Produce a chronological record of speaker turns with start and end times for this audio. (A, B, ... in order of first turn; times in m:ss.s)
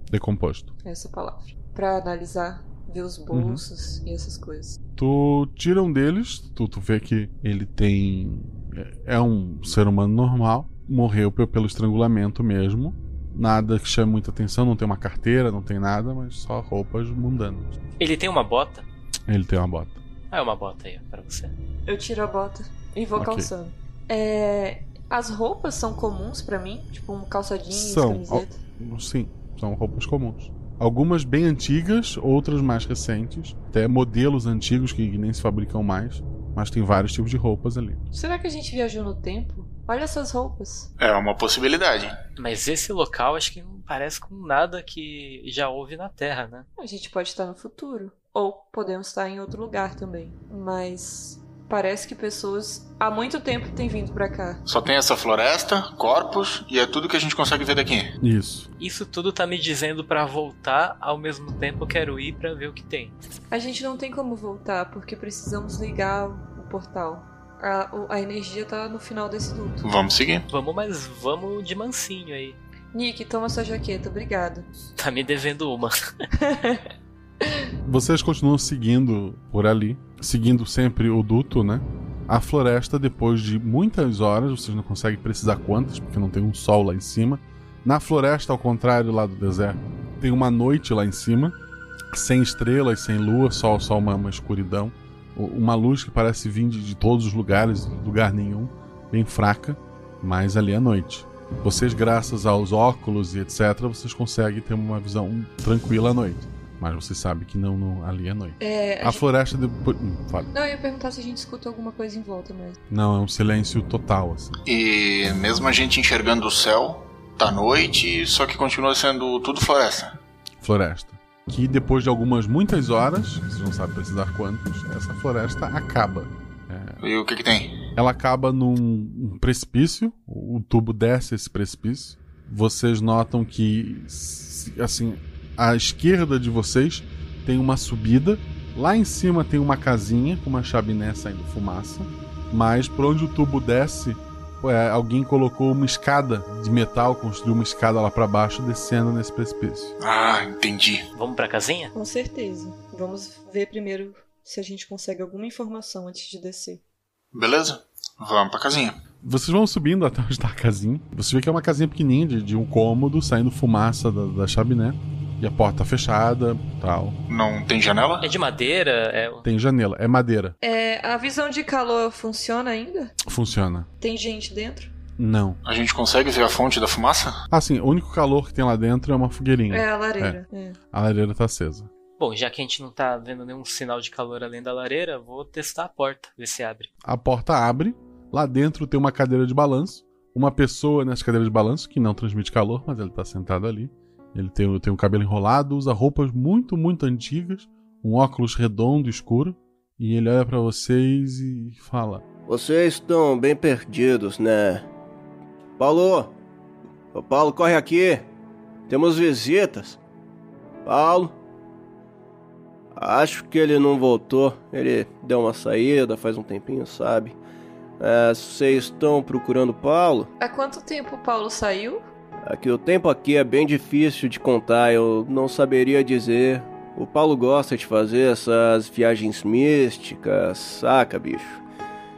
0:00.1-0:00.7 A
0:00.8-0:04.8 B
0:03.3-0:03.6 A
0:05.0-0:17.7 A
0:18.0-0:18.8 C
0:19.3-0:20.0 A
0:20.3-0:21.5 C
0:21.8-0:28.6 B
0:23.2-0:23.5 A
0:27.7-0:38.0 A
0:38.1-0:40.9 B
0:41.0-0:42.1 D
0:42.4-0:46.6 C
0:46.8-0:54.6 B
0:54.6-0:58.1 D
0:58.2-0:58.7 A
0:58.8-1:03.2 C
1:03.5-1:09.8 B
1:09.8-1:10.5 D
1:10.5-1:12.6 C
1:12.9-1:14.7 B
1:15.0-1:16.0 C
1:16.4-1:16.8 B
1:17.8-1:31.6 A
1:32.1-1:50.5 A
1:48.6-1:49.2 B
1:50.5-1:52.8 B
1:52.9-1:54.5 A
1:54.7-2:00.1 D
2:00.6-2:07.0 A
2:07.0-2:07.7 D
2:08.0-2:29.9 A
2:30.0-2:31.0 D
2:31.1-2:31.9 C
2:31.9-2:36.8 B
2:37.3-2:38.9 D
2:39.2-2:47.2 A
2:47.3-2:48.3 D
2:48.2-2:49.4 C
2:49.4-2:50.5 A
2:50.6-2:53.1 B
2:53.2-2:53.9 A
2:54.0-2:54.9 B
2:55.2-2:55.6 A
2:55.6-2:57.4 D
2:57.5-3:00.4 A
2:59.7-3:00.8 B
3:00.9-3:01.9 A
3:02.2-3:06.9 C
3:07.0-3:22.2 A
3:22.5-3:24.8 E
3:25.8-3:26.3 E
3:27.1-3:28.2 E
3:28.9-3:30.0 E
3:30.8-3:31.3 E
3:33.0-3:37.3 E
3:38.0-3:40.3 E
3:40.4-3:42.0 B
3:42.4-3:51.6 E